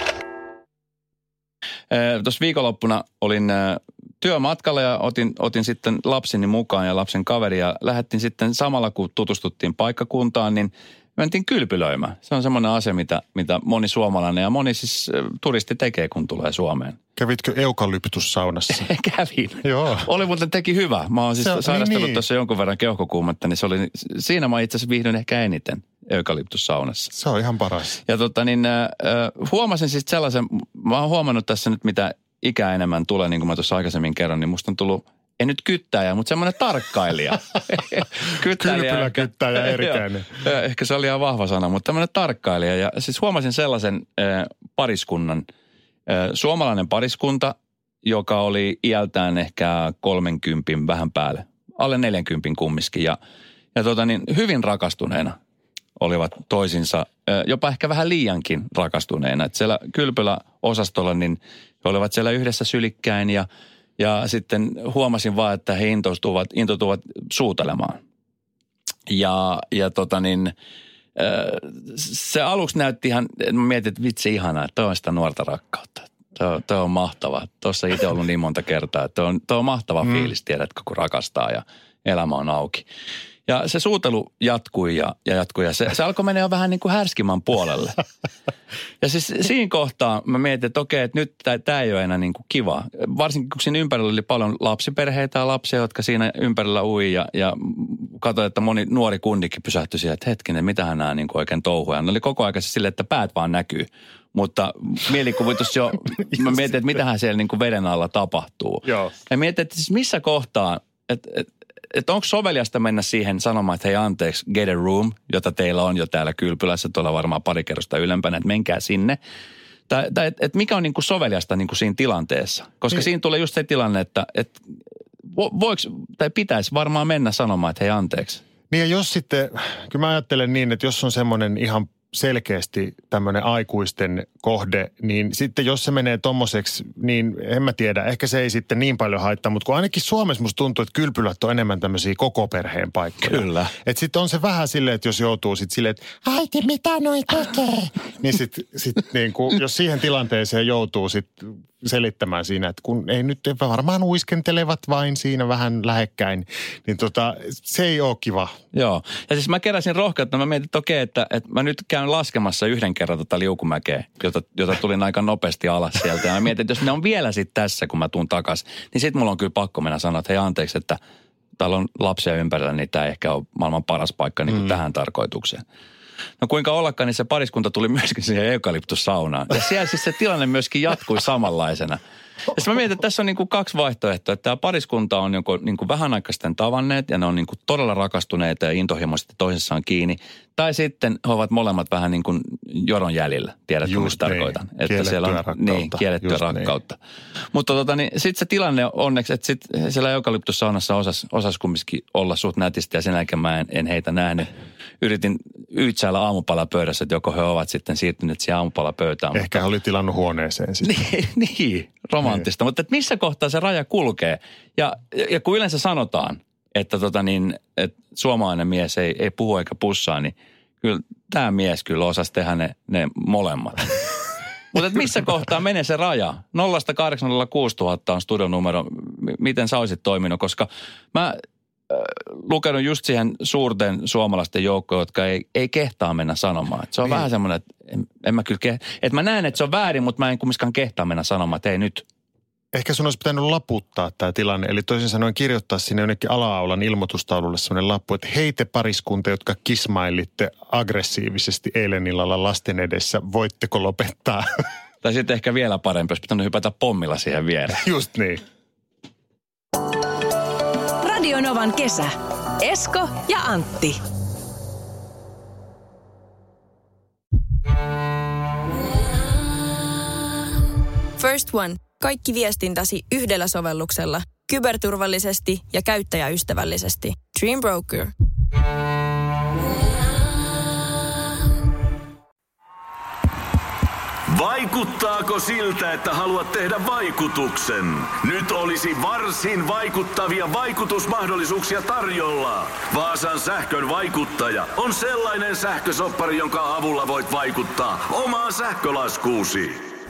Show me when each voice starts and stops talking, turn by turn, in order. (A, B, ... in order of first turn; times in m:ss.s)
0:01.9-0:17.0 A
0:17.2-0:18.9 B
0:18.7-0:27.1 A
0:19.6-0:20.1 B
0:21.4-0:22.2 B
0:27.1-0:28.0 B
0:28.0-0:45.5 A
0:38.5-0:40.3 B
0:46.1-0:53.2 A
0:53.8-0:55.4 A
0:56.0-1:03.5 A
1:04.0-1:08.0 A
1:09.1-1:10.5 A
1:11.1-1:22.9 A
1:23.5-1:28.0 A
1:29.0-1:59.2 A
1:48.9-1:49.1 B
1:59.9-2:04.6 A
2:05.3-2:08.4 A
2:08.7-2:38.5 B
2:23.2-2:23.7 A
2:38.7-2:51.0 A
2:51.6-2:55.6 A
2:56.4-3:02.0 A
3:02.5-3:17.0 A
3:13.8-3:16.7 B
3:17.5-3:24.5 A
3:25.0-3:29.6 A
3:29.3-3:30.9 B
3:30.8-3:43.9 A
3:44.7-3:51.4 A
3:51.9-4:02.0 A
4:02.7-4:14.4 B
4:15.0-4:17.8 A
4:17.8-4:18.4 B
4:21.0-4:24.0 C
4:31.2-4:38.1 D
4:44.3-4:59.8 E